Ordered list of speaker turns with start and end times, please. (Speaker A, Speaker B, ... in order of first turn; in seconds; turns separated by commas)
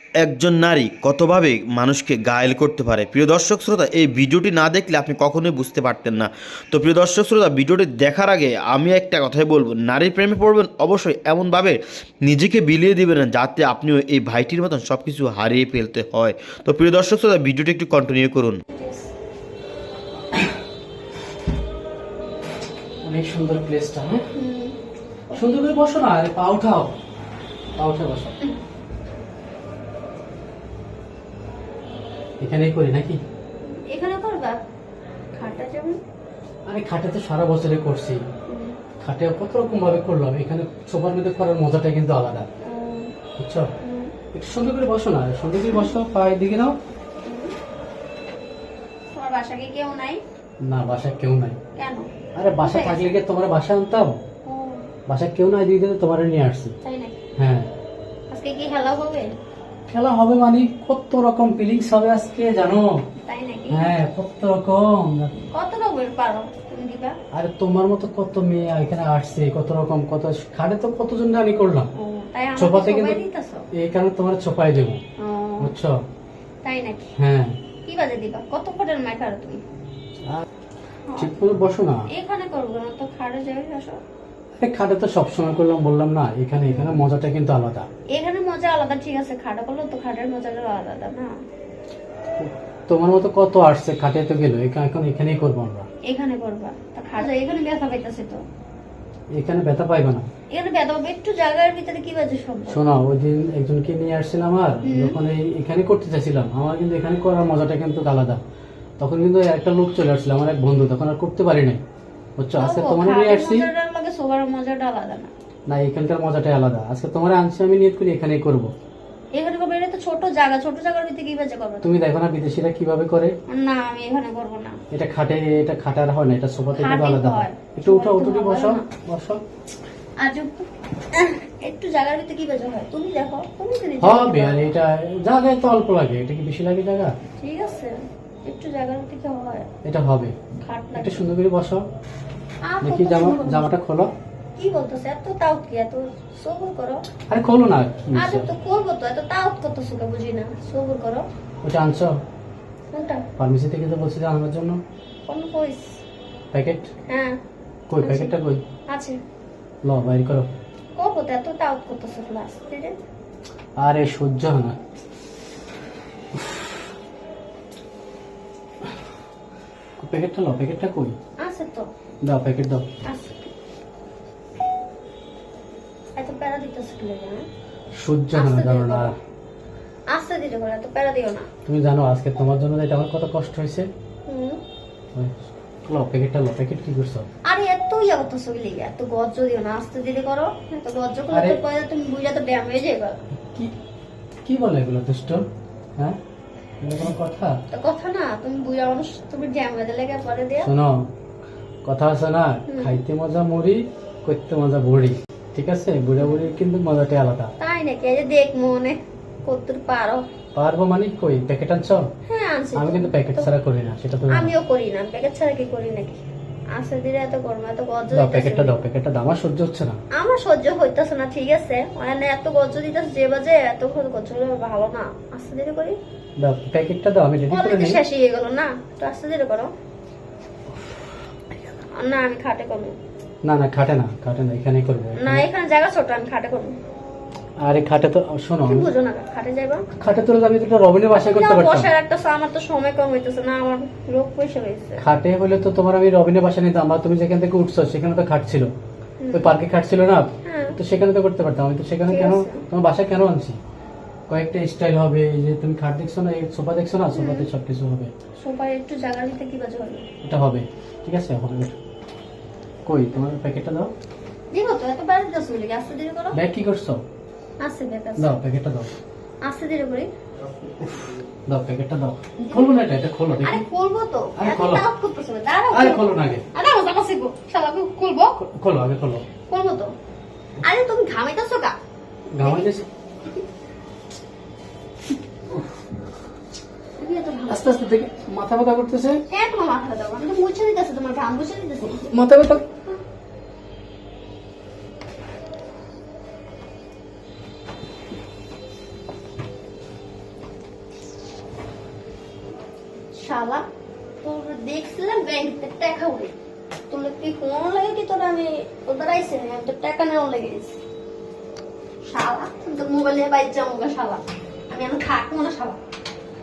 Speaker A: 0.2-18.6, Speaker B: 18.7-19.1, Speaker C: 23.0-24.3, Speaker B: 24.3-24.8, Speaker C: 25.3-26.9, Speaker C: 27.8-28.4, Speaker C: 32.4-33.2, Speaker B: 33.6-34.6, Speaker B: 35.4-36.0, Speaker C: 36.7-38.2, Speaker B: 38.5-38.8, Speaker C: 39.0-42.5, Speaker B: 42.6-43.1, Speaker C: 43.4-43.7, Speaker B: 43.8-44.1, Speaker C: 44.3-46.8, Speaker B: 47.2-47.5, Speaker B: 49.1-50.2, Speaker C: 50.6-51.6, Speaker B: 51.8-53.1, Speaker C: 52.4-54.2, Speaker B: 54.5-54.8, Speaker C: 55.1-56.8, Speaker B: 56.8-57.2, Speaker C: 57.4-57.7, Speaker B: 58.3-59.3, Speaker C: 59.9-63.1, Speaker B: 63.2-63.9, Speaker C: 63.7-65.4, Speaker B: 65.5-67.2, Speaker C: 67.3-71.9, Speaker B: 72.0-73.7, Speaker C: 72.6-73.2, Speaker C: 73.7-75.0, Speaker B: 75.2-75.8, Speaker C: 75.6-76.0, Speaker B: 76.6-77.1, Speaker C: 77.2-77.6, Speaker B: 77.8-79.6, Speaker B: 81.1-81.3, Speaker C: 81.2-82.1, Speaker B: 82.1-84.0, Speaker C: 84.6-87.9, Speaker B: 86.6-87.0, Speaker B: 88.1-91.3, Speaker C: 92.4-95.9, Speaker B: 96.0-98.4, Speaker C: 99.3-100.3, Speaker B: 100.5-102.8, Speaker C: 102.7-108.4, Speaker B: 104.8-105.2, Speaker C: 109.0-111.8, Speaker C: 112.4-113.7, Speaker B: 112.6-115.3, Speaker C: 115.7-118.7, Speaker B: 119.3-121.9, Speaker C: 121.8-123.4, Speaker B: 123.5-124.8, Speaker C: 124.9-129.4, Speaker B: 126.8-128.8, Speaker B: 130.2-134.7, Speaker C: 134.0-137.2, Speaker B: 137.4-139.7, Speaker C: 139.8-140.3, Speaker B: 140.6-141.2, Speaker C: 140.9-141.8, Speaker B: 142.6-143.7, Speaker C: 142.8-144.1, Speaker B: 144.6-147.1, Speaker C: 147.3-148.5, Speaker B: 148.1-151.3, Speaker C: 151.6-152.2, Speaker B: 152.9-153.3, Speaker C: 153.4-154.8, Speaker B: 155.3-156.0, Speaker C: 156.5-156.9, Speaker B: 157.1-157.4, Speaker C: 157.9-158.6, Speaker B: 158.0-158.3, Speaker B: 158.9-159.2, Speaker C: 159.8-160.5, Speaker B: 161.0-163.0, Speaker C: 163.8-164.8, Speaker C: 166.4-166.7, Speaker C: 170.0-171.2, Speaker B: 171.4-171.9, Speaker C: 172.2-172.9, Speaker B: 173.0-173.5, Speaker B: 176.2-177.5, Speaker C: 178.0-179.2, Speaker B: 178.3-179.1, Speaker B: 180.1-181.5, Speaker C: 181.7-183.9, Speaker B: 184.3-184.6, Speaker C: 185.2-187.3, Speaker B: 187.4-193.2, Speaker C: 191.3-191.6, Speaker C: 194.4-195.5, Speaker C: 196.8-197.6, Speaker B: 197.7-200.7, Speaker C: 200.6-201.1, Speaker C: 201.8-207.5, Speaker B: 202.7-203.0, Speaker B: 206.2-206.5, Speaker B: 207.6-210.2, Speaker C: 210.6-212.1, Speaker B: 212.3-213.5, Speaker C: 212.8-214.5, Speaker B: 214.3-216.2, Speaker B: 216.7-218.8, Speaker C: 218.1-220.0, Speaker B: 220.2-226.0, Speaker C: 226.4-228.0, Speaker B: 227.5-229.7, Speaker B: 232.0-233.0, Speaker C: 233.4-235.4, Speaker B: 235.2-236.8, Speaker C: 237.6-238.9, Speaker B: 238.7-239.9, Speaker C: 239.9-241.9, Speaker B: 241.2-245.0, Speaker C: 245.0-248.7, Speaker B: 249.2-249.6, Speaker C: 249.3-253.6, Speaker B: 250.4-250.8, Speaker B: 252.1-252.6, Speaker C: 254.3-258.1, Speaker B: 257.1-257.5, Speaker B: 258.4-260.1, Speaker C: 260.2-261.8, Speaker C: 262.9-263.9, Speaker B: 264.5-266.4, Speaker C: 266.3-267.0, Speaker B: 267.6-268.4, Speaker C: 268.2-268.9, Speaker B: 269.4-270.1, Speaker C: 271.5-273.6, Speaker B: 272.4-272.8, Speaker B: 273.4-278.4, Speaker C: 274.4-274.8, Speaker C: 275.7-276.4, Speaker C: 278.4-279.2, Speaker B: 279.5-279.9, Speaker B: 280.6-281.8, Speaker C: 282.3-282.9, Speaker B: 287.0-287.7, Speaker C: 287.5-289.2, Speaker B: 289.3-292.3, Speaker C: 291.8-292.6, Speaker B: 303.1-303.6, Speaker B: 304.2-306.3, Speaker B: 306.9-310.8, Speaker B: 312.1-315.8